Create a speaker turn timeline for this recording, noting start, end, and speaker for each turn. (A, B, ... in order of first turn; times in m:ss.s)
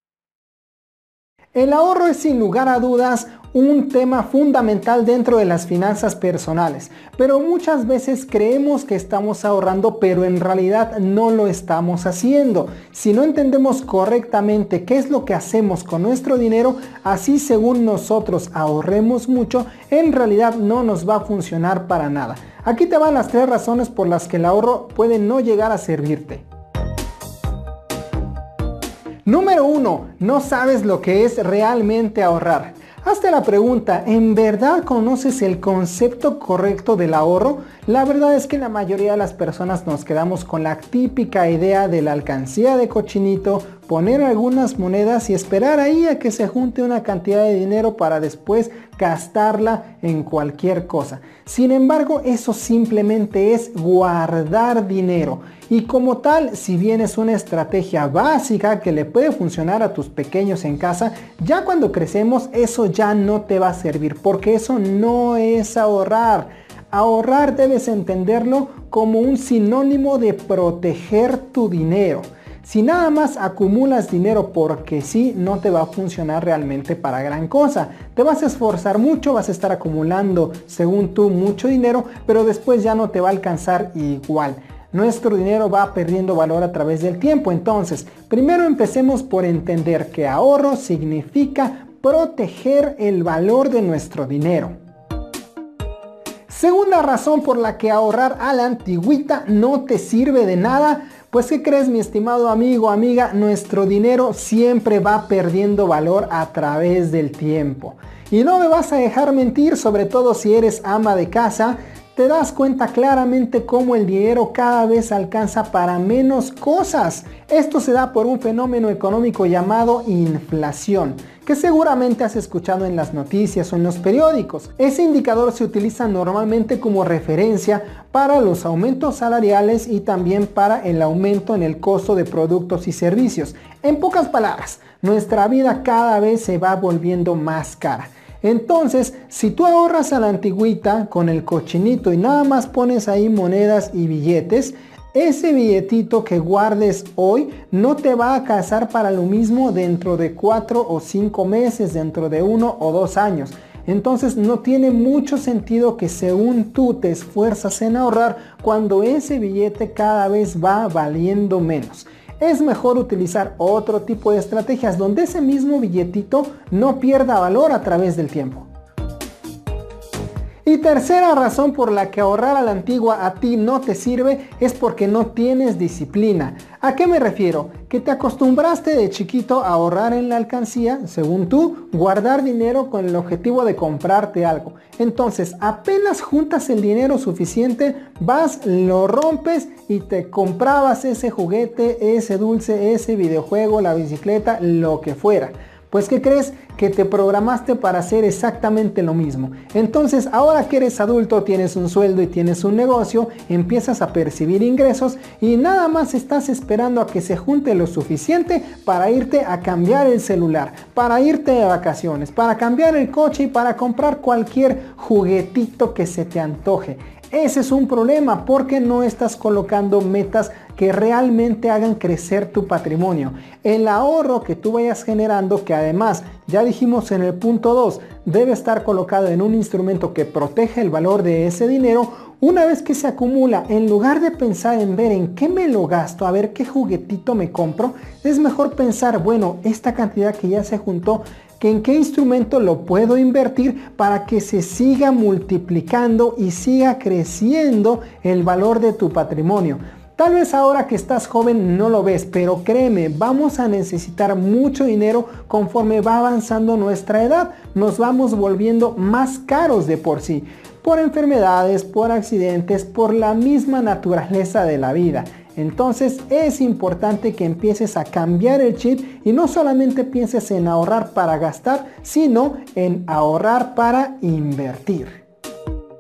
0:01.5-0:26.4 A
0:29.3-1:34.8 A
1:36.5-2:48.7 A
2:50.6-4:35.2 A